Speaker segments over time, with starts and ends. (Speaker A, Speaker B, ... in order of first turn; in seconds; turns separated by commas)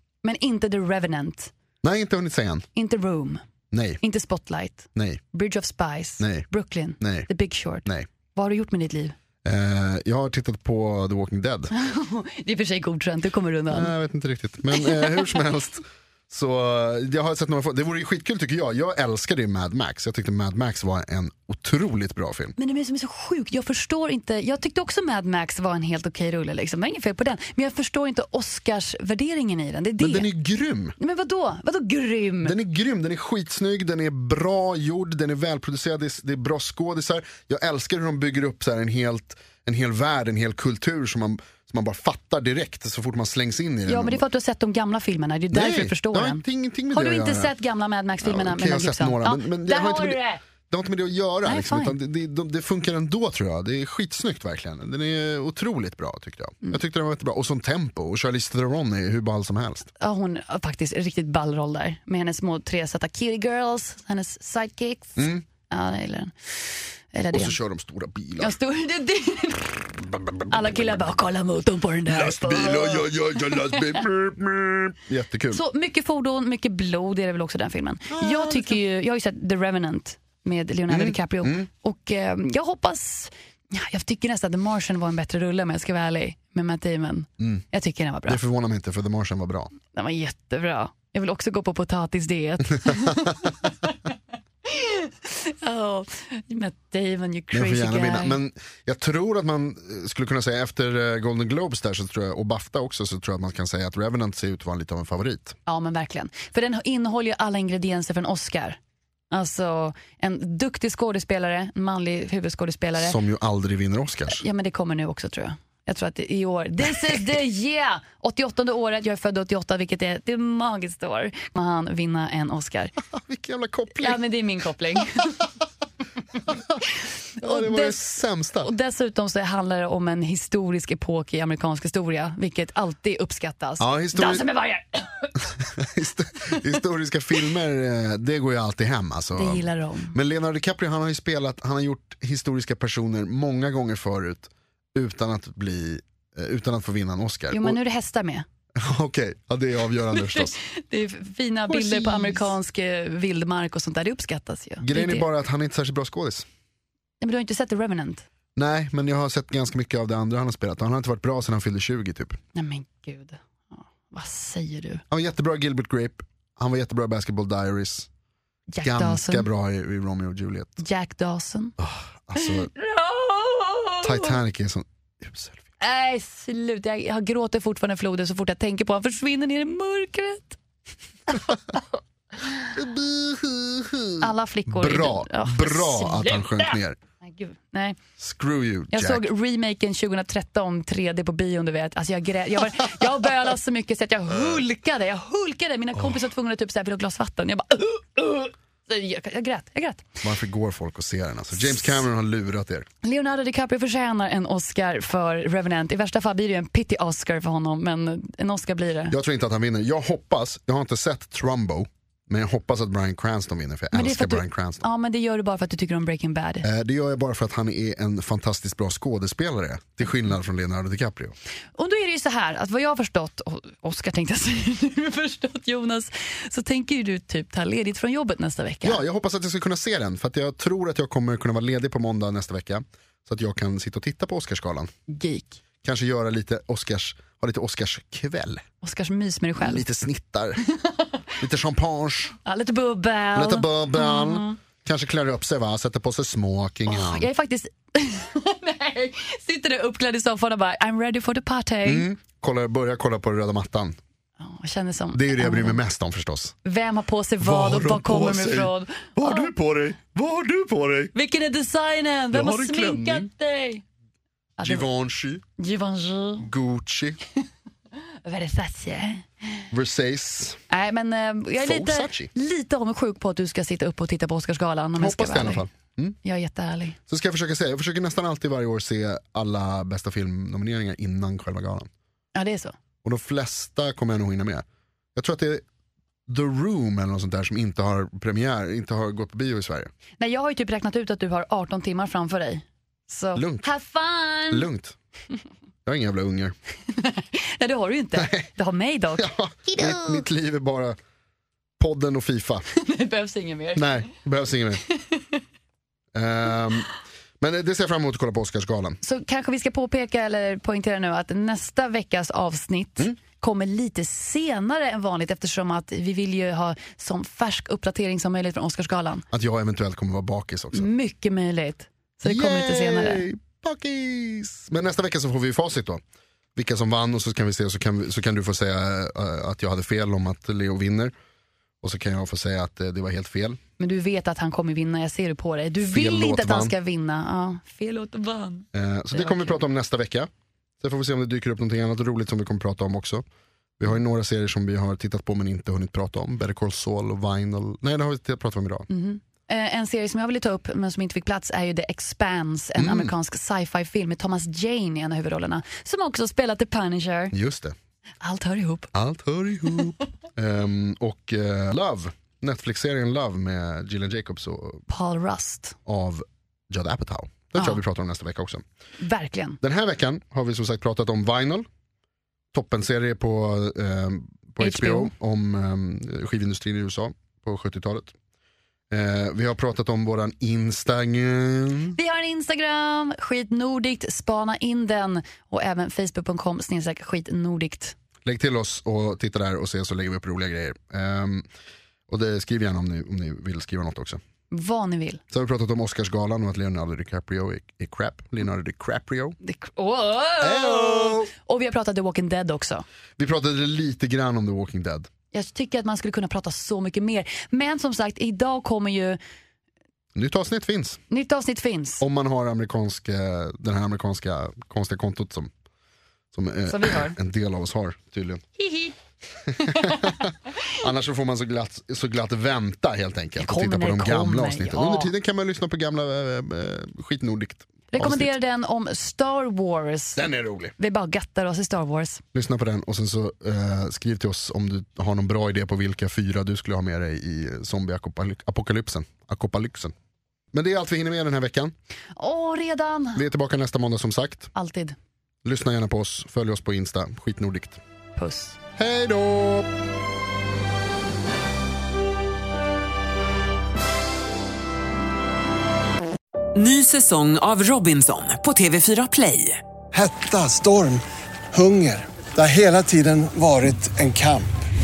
Speaker A: 0.2-1.5, Speaker B: 1.8-2.7, Speaker A: 2.7-3.4, Speaker B: 3.7-4.0, Speaker A: 4.0-9.1, Speaker B: 4.9-5.2, Speaker B: 6.2-6.5, Speaker B: 7.0-7.3, Speaker B: 9.4-11.7, Speaker A: 11.7-13.9, Speaker B: 13.7-22.5, Speaker A: 14.7-15.2, Speaker A: 22.6-30.3, Speaker B: 30.0-30.9, Speaker A: 31.0-32.5, Speaker B: 32.4-44.2, Speaker A: 43.9-50.4, Speaker B: 45.5-47.5, Speaker B: 48.2-50.2, Speaker B: 50.7-59.9, Speaker A: 51.5-52.0, Speaker A: 60.0-67.5, Speaker B: 65.2-65.4, Speaker B: 67.3-68.5, Speaker A: 68.4-70.0, Speaker B: 70.0-70.9, Speaker A: 70.5-74.0, Speaker B: 72.1-75.6, Speaker A: 75.5-88.4, Speaker B: 78.1-78.8, Speaker B: 80.9-81.7, Speaker B: 88.3-89.7, Speaker A: 89.9-94.1, Speaker B: 92.8-93.5, Speaker A: 94.6-98.4, Speaker B: 97.5-105.6, Speaker A: 105.7-108.8, Speaker A: 109.3-113.2, Speaker B: 113.0-114.4, Speaker A: 114.3-122.9, Speaker B: 123.0-124.2, Speaker A: 123.9-125.5, Speaker B: 126.5-126.8, Speaker A: 127.3-128.0, Speaker B: 127.4-128.7, Speaker A: 128.6-135.5, Speaker B: 133.8-134.5, Speaker B: 135.6-147.8, Speaker A: 139.3-140.2, Speaker A: 147.5-148.4, Speaker B: 148.8-150.6, Speaker A: 150.1-155.3, Speaker B: 151.7-152.5, Speaker B: 154.8-156.4, Speaker A: 157.2-158.2, Speaker B: 158.6-162.4, Speaker A: 162.5-165.0, Speaker B: 165.1-168.1, Speaker A: 168.7-169.5, Speaker B: 168.8-170.8, Speaker A: 170.8-171.8, Speaker B: 171.8-172.7, Speaker A: 172.3-174.4, Speaker B: 174.0-175.6, Speaker A: 175.8-180.6, Speaker A: 181.3-181.8, Speaker B: 182.7-187.0, Speaker A: 184.2-188.0, Speaker B: 188.2-189.3, Speaker A: 188.9-200.2, Speaker B: 200.2-202.9, Speaker A: 201.7-202.0, Speaker A: 203.0-209.1, Speaker B: 209.1-214.8, Speaker A: 213.9-216.7, Speaker B: 216.6-221.3, Speaker A: 221.8-229.0, Speaker B: 228.8-234.9, Speaker A: 235.1-235.6, Speaker B: 235.8-238.6, Speaker A: 238.8-239.8, Speaker B: 239.6-240.6, Speaker A: 240.7-241.1, Speaker B: 241.4-242.3, Speaker A: 242.4-244.6, Speaker B: 243.3-247.3, Speaker A: 246.9-252.1, Speaker B: 251.8-254.0, Speaker A: 254.4-255.8, Speaker B: 255.1-256.5, Speaker A: 256.6-259.5, Speaker B: 257.4-261.1, Speaker A: 261.1-263.8, Speaker B: 262.3-263.3, Speaker A: 264.6-264.9, Speaker B: 264.6-265.4, Speaker A: 265.6-266.5, Speaker B: 266.4-267.2, Speaker A: 268.2-269.6, Speaker B: 269.7-270.6, Speaker A: 270.7-275.7, Speaker B: 271.6-272.3, Speaker B: 275.0-276.1, Speaker A: 276.2-277.0, Speaker B: 277.1-281.9, Speaker A: 282.3-282.7, Speaker B: 283.0-284.6, Speaker B: 285.1-285.6, Speaker B: 286.3-289.9, Speaker A: 290.2-294.7, Speaker B: 293.3-293.6, Speaker B: 294.5-294.9, Speaker B: 295.8-296.5, Speaker A: 296.9-300.2, Speaker B: 299.2-301.0, Speaker B: 301.8-302.6, Speaker A: 302.7-304.1, Speaker B: 303.7-304.8, Speaker A: 304.9-305.4, Speaker B: 306.1-309.0, Speaker A: 309.0-319.2, Speaker B: 319.3-320.9, Speaker A: 320.7-323.3, Speaker B: 322.2-326.0, Speaker B: 326.5-331.1, Speaker B: 331.8-333.6, Speaker A: 333.8-339.6, Speaker B: 335.8-336.7, Speaker B: 338.7-343.2, Speaker B: 343.8-348.9, Speaker A: 348.9-357.3, Speaker B: 352.8-353.1, Speaker B: 357.3-357.7, Speaker A: 358.2-358.9, Speaker B: 358.9-364.9, Speaker A: 364.9-365.8, Speaker B: 365.9-368.6, Speaker A: 369.0-369.6, Speaker B: 369.6-371.7, Speaker B: 372.5-378.1, Speaker A: 374.6-375.1, Speaker B: 378.9-382.0, Speaker A: 381.9-387.9, Speaker B: 388.2-391.4, Speaker B: 392.1-394.2, Speaker A: 394.5-395.2, Speaker B: 395.3-399.4, Speaker A: 399.4-402.8, Speaker B: 400.4-401.3, Speaker B: 403.2-405.1, Speaker A: 405.3-409.2, Speaker B: 410.1-411.0, Speaker A: 411.1-412.0, Speaker B: 412.0-415.5, Speaker B: 416.3-418.4, Speaker A: 416.7-417.1, Speaker A: 418.6-418.9, Speaker A: 419.6-420.2, Speaker B: 419.6-428.3, Speaker A: 423.4-425.1, Speaker A: 427.9-430.2, Speaker B: 430.1-430.7, Speaker A: 430.8-432.2, Speaker B: 432.3-439.9, Speaker B: 440.5-441.7, Speaker A: 442.1-443.2, Speaker B: 443.1-444.5, Speaker A: 444.5-444.9, Speaker B: 445.4-447.8, Speaker A: 448.1-448.6, Speaker B: 448.8-449.7, Speaker C: 456.5-459.6, Speaker D: 459.9-464.5